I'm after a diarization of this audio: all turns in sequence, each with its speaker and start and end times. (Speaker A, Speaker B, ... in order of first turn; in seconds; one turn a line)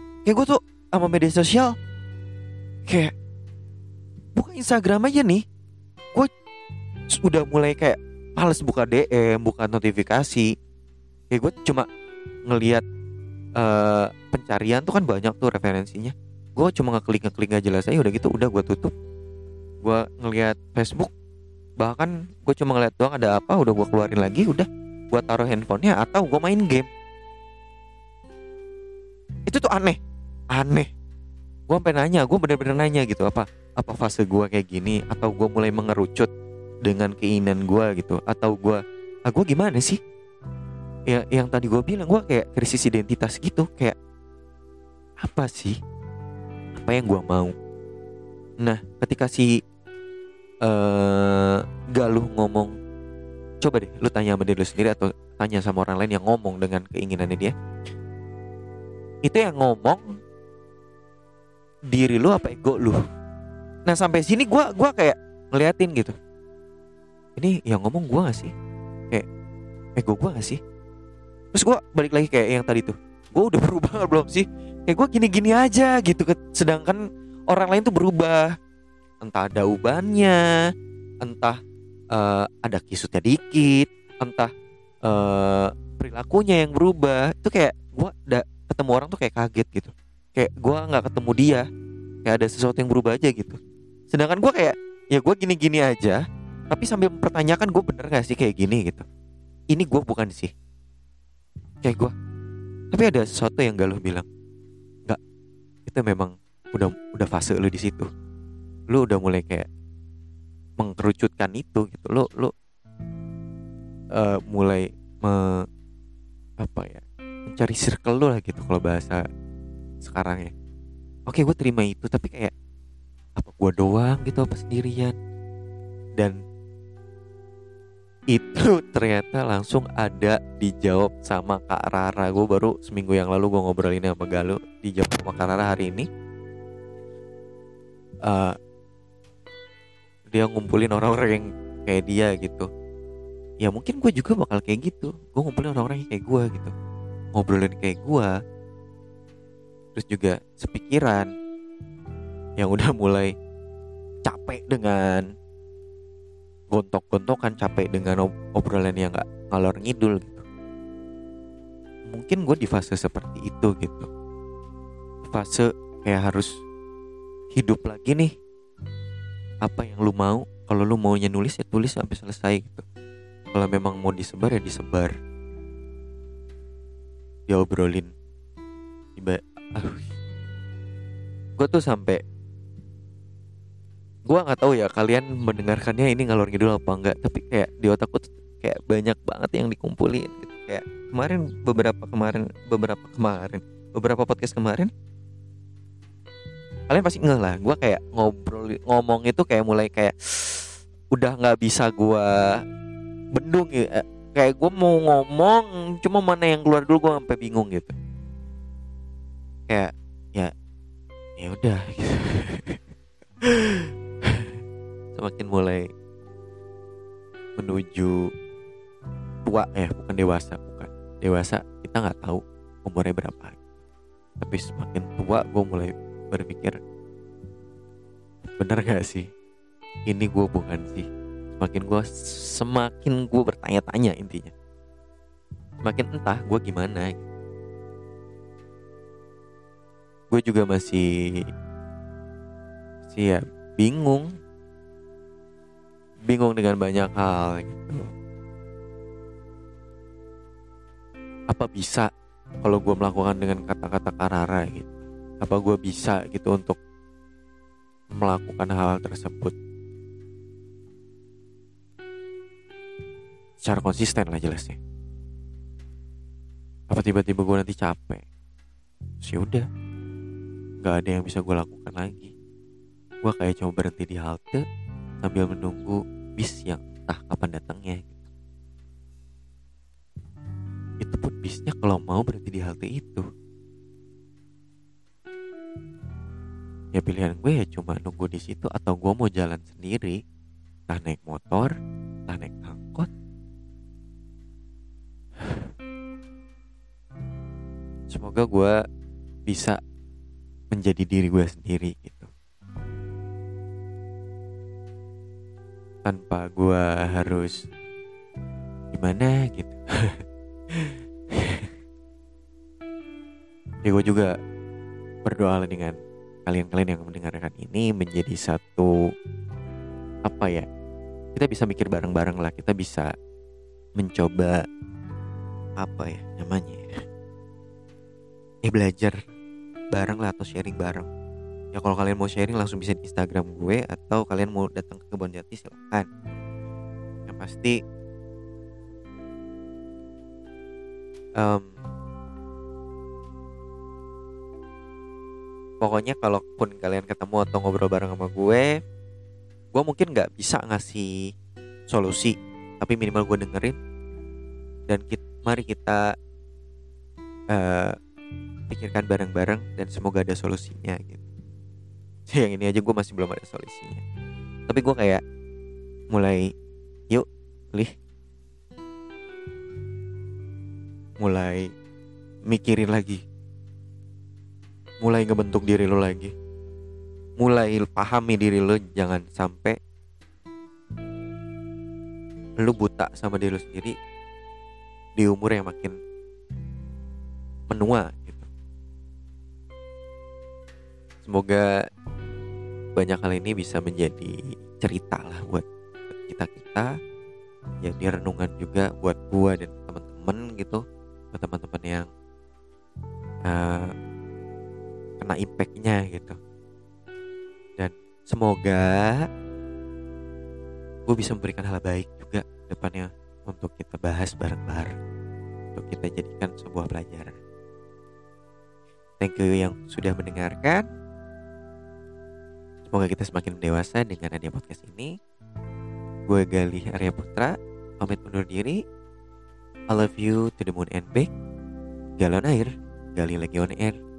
Speaker A: 0.2-1.7
Speaker A: 2.9-3.1
Speaker A: 4.3-5.4
Speaker A: 7.2-10.5
Speaker A: 11.3-11.9
Speaker A: 12.4-12.8
Speaker A: 13.6-18.9
Speaker A: 19.8-21.1
Speaker A: 21.8-26.9
Speaker A: 29.5-30.0
Speaker A: 30.5-30.9
Speaker A: 31.7-36.3
Speaker A: 36.8-40.0
Speaker A: 41.1-44.0
Speaker A: 45.2-45.8
Speaker A: 46.7-47.5
Speaker A: 48.6-49.5
Speaker A: 50.6-52.7
Speaker A: 53.6-57.5
Speaker A: 59.2-60.0
Speaker A: 61.9-63.0
Speaker A: 63.9-66.1
Speaker A: 67.4-68.5
Speaker A: 70.0-70.6
Speaker A: 71.5-78.5
Speaker A: 79.2-80.5
Speaker A: 81.2-81.6
Speaker A: 82.1-84.5
Speaker A: 85.0-91.7
Speaker A: 92.2-93.6
Speaker A: 94.1-99.0
Speaker A: 99.7-100.5
Speaker A: 101.8-102.1
Speaker A: 102.9-104.3
Speaker A: 105.8-108.1
Speaker A: 108.9-109.7
Speaker A: 110.8-112.5
Speaker A: 114.1-115.6
Speaker A: 116.6-119.2
Speaker A: 120.0-120.5
Speaker A: 121.3-122.5
Speaker A: 123.4-125.2
Speaker A: 128.3-136.1
Speaker A: 138.2-138.6
Speaker A: 140.3-142.7
Speaker A: 143.6-146.7
Speaker A: 147.3-148.3
Speaker A: 149.9-151.3
Speaker A: 152.6-153.3
Speaker A: 154.2-155.3
Speaker A: 156.7-160.4
Speaker A: 162.1-164.1
Speaker A: 165.3-166.5
Speaker A: 167.5-168.3
Speaker A: 169.6-172.8
Speaker A: 173.5-175.1
Speaker A: 177.5-178.1
Speaker A: 179.2-180.1
Speaker A: 181.6-182.2
Speaker A: 184.3-194.9
Speaker A: 196.9-202.6
Speaker A: 203.3-207.9
Speaker A: 209.7-210.5
Speaker A: 211.4-212.8
Speaker A: 213.4-214.5
Speaker A: 215.1-215.9
Speaker A: 217.6-218.3
Speaker A: 219.4-223.6
Speaker A: 224.4-226.8
Speaker A: 228.6-229.3
Speaker A: 230.1-234.5
Speaker A: 235.8-237.2
Speaker A: 240.3-241.4
Speaker A: 243.1-244.3
Speaker A: 246.3-248.1
Speaker A: 251.5-252.1
Speaker A: 252.6-256.8
Speaker A: 258.1-259.5
Speaker A: 263.6-264.8
Speaker A: 266.9-268.2
Speaker A: 269.2-269.6
Speaker A: 270.8-272.3
Speaker A: 273.2-274.6
Speaker A: 275.2-278.2
Speaker A: 281.0-283.2
Speaker A: 286.9-290.2
Speaker A: 290.9-291.7
Speaker A: 292.3-293.1
Speaker A: 298.1-298.8
Speaker A: 299.5-299.8
Speaker A: 300.7-302.3
Speaker A: 306.0-307.6
Speaker A: 308.9-311.7
Speaker A: 313.9-314.3
Speaker A: 315.2-315.9
Speaker A: 316.5-318.9
Speaker A: 320.2-320.6
Speaker A: 321.3-323.1
Speaker A: 324.0-324.6
Speaker A: 325.8-326.9
Speaker A: 328.6-329.2
Speaker A: 329.9-331.1
Speaker A: 331.7-336.1
Speaker A: 337.3-337.8
Speaker A: 341.4-341.7
Speaker A: 345.8-348.8
Speaker A: 349.7-351.1
Speaker A: 351.9-353.8
Speaker A: 354.9-356.0
Speaker A: 357.5-357.9
Speaker A: 358.7-361.2
Speaker A: 362.3-364.0
Speaker A: 364.7-365.2
Speaker A: 366.1-366.5
Speaker A: 367.1-367.9
Speaker A: 371.2-371.7
Speaker A: 372.5-373.2
Speaker A: 375.0-376.3
Speaker A: 377.4-379.8
Speaker A: 382.6-383.9
Speaker A: 385.2-386.0
Speaker A: 387.7-388.5
Speaker A: 391.2-391.7
Speaker A: 392.9-396.9
Speaker A: 397.8-402.1
Speaker A: 403.4-403.9
Speaker A: 405.2-406.4
Speaker A: 407.8-409.3
Speaker A: 411.1-414.9
Speaker A: 415.7-417.4
Speaker A: 419.2-420.9
Speaker A: 422.9-425.1
Speaker A: 426.3-428.8
Speaker A: 429.9-431.3
Speaker A: 432.2-434.0